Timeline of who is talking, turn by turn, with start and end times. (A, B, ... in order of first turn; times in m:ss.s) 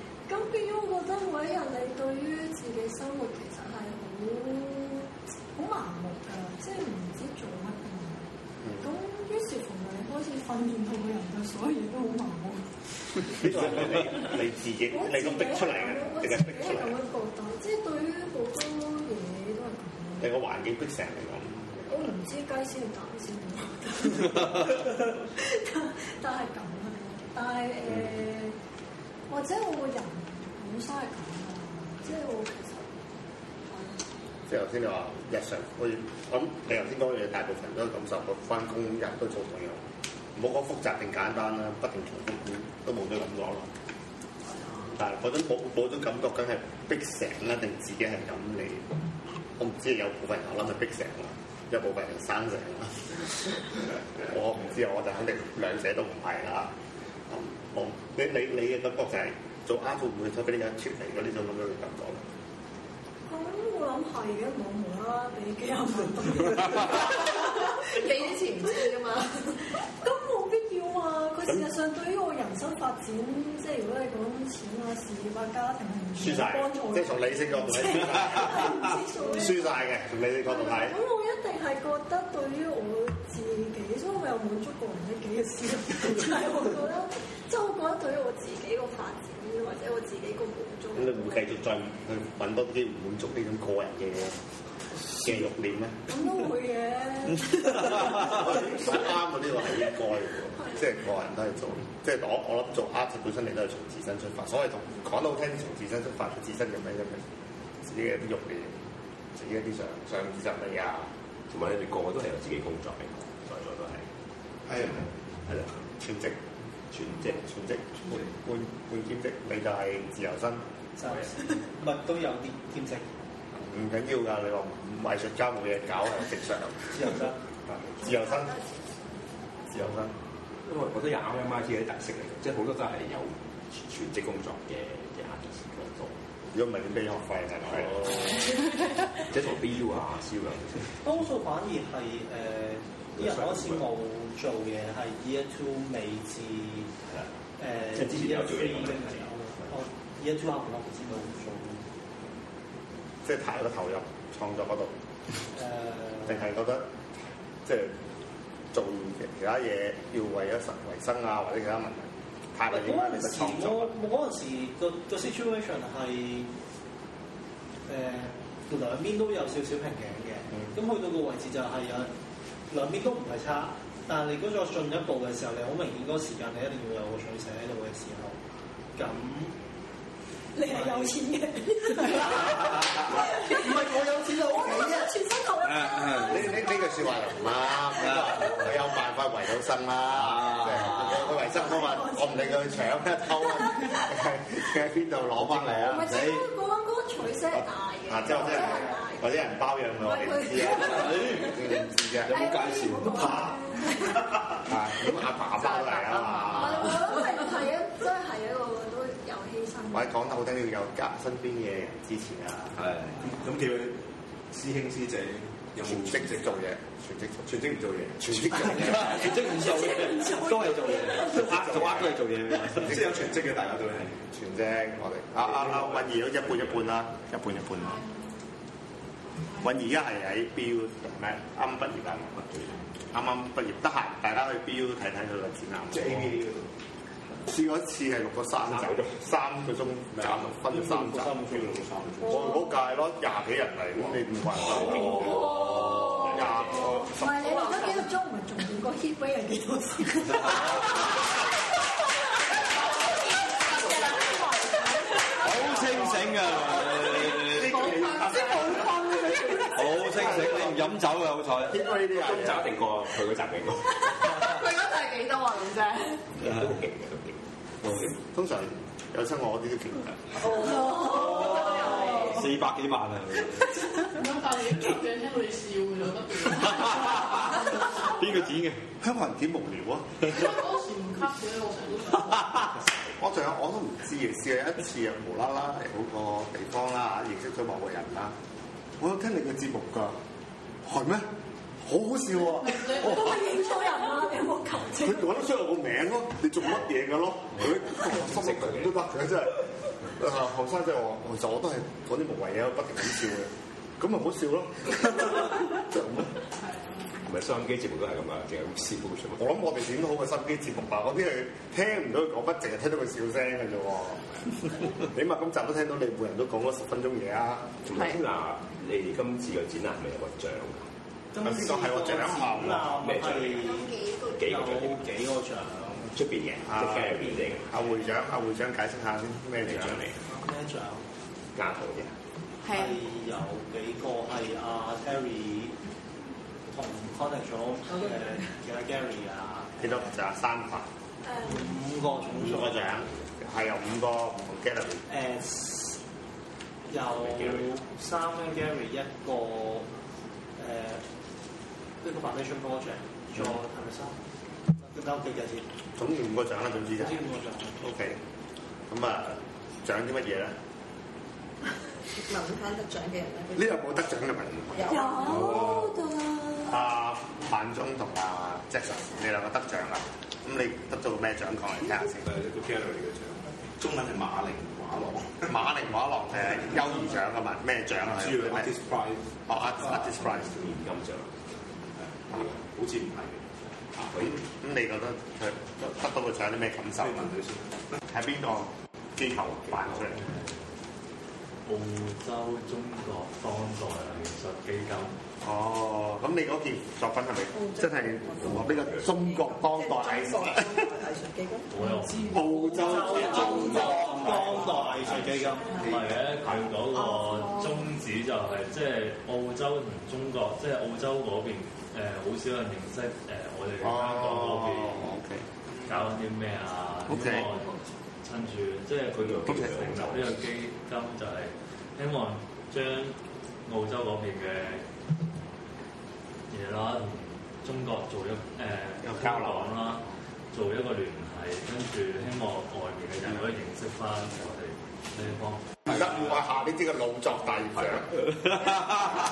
0:00.3-0:08.3 A
0:08.8-0:12.7 A
0:13.3-0:17.0 B
0:14.9-0:20.3 A
0:20.2-0:22.1 B
0:21.9-0:28.6 A
0:29.3-0:33.0 A
0:33.7-0:34.0 A
0:34.5-0:39.8 B
0:40.3-0:43.7 B
0:44.9-0:48.8 B
0:49.6-0:53.6 B
0:54.1-0:56.7 B
0:57.3-1:02.2 B
1:03.3-1:09.0 A
1:07.9-1:09.6 C
1:10.0-1:19.8 A
1:16.2-1:21.0 B
1:20.4-1:31.5 A
1:31.0-1:34.4 B
1:35.2-1:36.0 B
1:36.1-1:39.0 A
1:38.2-1:47.2 B
1:47.8-1:48.8 B
1:49.3-1:51.1 B
1:51.5-1:54.0 D
1:54.6-1:55.1 E
1:55.5-1:55.8 D
1:56.0-1:56.4 B
1:56.9-1:57.4 D
1:57.3-2:00.6 B
2:01.0-2:03.0 F
2:03.6-2:06.9 B
2:06.9-2:07.4 F
2:07.7-2:08.5 B
2:08.0-2:09.2 A
2:09.7-2:10.1 B
2:10.6-2:16.1 D
2:16.5-2:18.5 B
2:17.7-2:18.2 D
2:19.2-2:21.0 D
2:21.0-2:26.9 F
2:23.2-2:23.8 D
2:27.6-2:31.8 F
2:28.0-2:29.2 D
2:33.2-2:34.9 B
2:35.6-2:36.4 F
2:36.3-2:36.9 B
2:37.6-2:38.0 B
2:38.7-2:43.9 B
2:42.7-2:46.5 F
2:47.9-2:52.1 F
2:52.7-2:58.4 F
2:59.0-2:59.6 F
3:00.6-3:08.6 A
3:00.7-3:01.1 F
3:02.1-3:02.6 F
3:03.5-3:05.1 F
3:05.6-3:06.4 G
3:06.3-3:16.1 B
3:10.3-3:10.9 G
3:11.2-3:14.1 A
3:15.4-3:16.4 G
3:15.8-3:19.4 A
3:17.5-3:22.5 B
3:18.5-3:18.9 F
3:20.0-3:24.3 A
3:20.8-3:21.5 G
3:22.3-3:23.4 G
3:23.1-3:23.5 B
3:24.6-3:27.0 B
3:25.6-3:27.2 C
3:26.5-3:30.1 A
3:29.9-3:32.8 B
3:33.2-3:36.6 E
3:35.8-3:39.4 B
3:37.4-3:39.0 E
3:38.8-3:43.1 G
3:39.2-3:41.6 A
3:41.3-3:42.9 B
3:42.8-3:44.2 E
3:44.3-3:48.0 B
3:45.4-3:46.8 E
3:49.6-3:52.4 B
3:52.4-3:52.8 D
3:53.1-3:56.4 B
3:55.9-3:56.7 E
3:57.4-4:07.4 B
3:58.6-3:59.2 D
4:00.6-4:02.4 E
4:02.2-4:02.8 A
4:05.6-4:11.1 A
4:07.4-4:08.1 C
4:13.8-4:14.2 C
4:15.4-4:17.7 G
4:17.5-4:18.8 E
4:17.8-4:18.7 C
4:19.7-4:21.8 G
4:20.1-4:20.9 B
4:21.6-4:22.7 B
4:22.1-4:24.0 D
4:24.2-4:26.2 C
4:26.4-4:27.3 D
4:27.8-4:28.1 D
4:28.2-4:30.4 B
4:30.5-4:32.4 C
4:30.6-4:32.3 A
4:32.2-4:33.6 G
4:34.1-4:38.5 H
4:36.6-4:38.8 G
4:39.0-4:40.6 B
4:40.3-4:42.6 H
4:43.2-4:48.3 B
4:49.0-4:50.2 B
4:50.8-4:51.3 B
4:51.8-4:53.4 B
4:52.8-4:55.3 A
4:55.0-5:06.3 B
4:57.9-4:59.0 D
5:07.3-5:09.4 D
5:09.4-5:17.8 B
5:17.8-5:20.9 D
5:21.3-5:26.1 F
5:21.4-5:23.1 B
5:23.0-5:25.0 D
5:26.1-5:27.7 D
5:26.6-5:30.2 B
5:29.6-5:30.0 D
5:30.2-5:31.0 F
5:31.6-5:32.1 D
5:32.6-5:33.0 C
5:32.7-5:35.7 F
5:36.7-5:40.1 F
5:39.8-5:40.9 B
5:41.2-5:41.7 A
5:41.4-5:42.8 F
5:42.4-5:45.0 B
5:45.1-5:46.0 F
5:46.9-5:49.9 F
5:50.6-5:51.0 F
5:52.0-5:54.2 F
5:54.8-5:55.6 F
5:56.0-5:57.2 B
5:57.0-5:57.8 F
5:57.8-5:58.2 B
5:58.9-6:00.6 B
6:02.1-6:03.6 C
6:03.6-6:05.4 B
6:04.7-6:05.1 C
6:04.8-6:06.8 A
6:06.7-6:12.3 B
6:12.3-6:15.5 E
6:15.5-6:18.7 B
6:16.5-6:16.8 E
6:18.1-6:19.3 E
6:19.5-6:20.8 B
6:20.4-6:21.3 D
6:22.0-6:23.5 E
6:24.0-6:27.3 B
6:27.0-6:28.0 E
6:28.1-6:30.3 B
6:29.7-6:30.1 D
6:30.1-6:30.6 I
6:31.6-6:35.2 I
6:35.4-6:40.9 B
6:38.4-6:39.1 D
6:41.7-6:42.6 I
6:42.3-6:44.7 B
6:42.8-6:45.8 F
6:45.8-6:55.1 I
6:53.8-6:55.5 B
6:55.9-7:04.8 I
6:57.1-6:57.5 B
6:59.1-7:00.4 D
6:59.4-7:00.1 B
7:06.5-7:15.8 I
7:09.0-7:10.0 B
7:15.9-7:18.4 B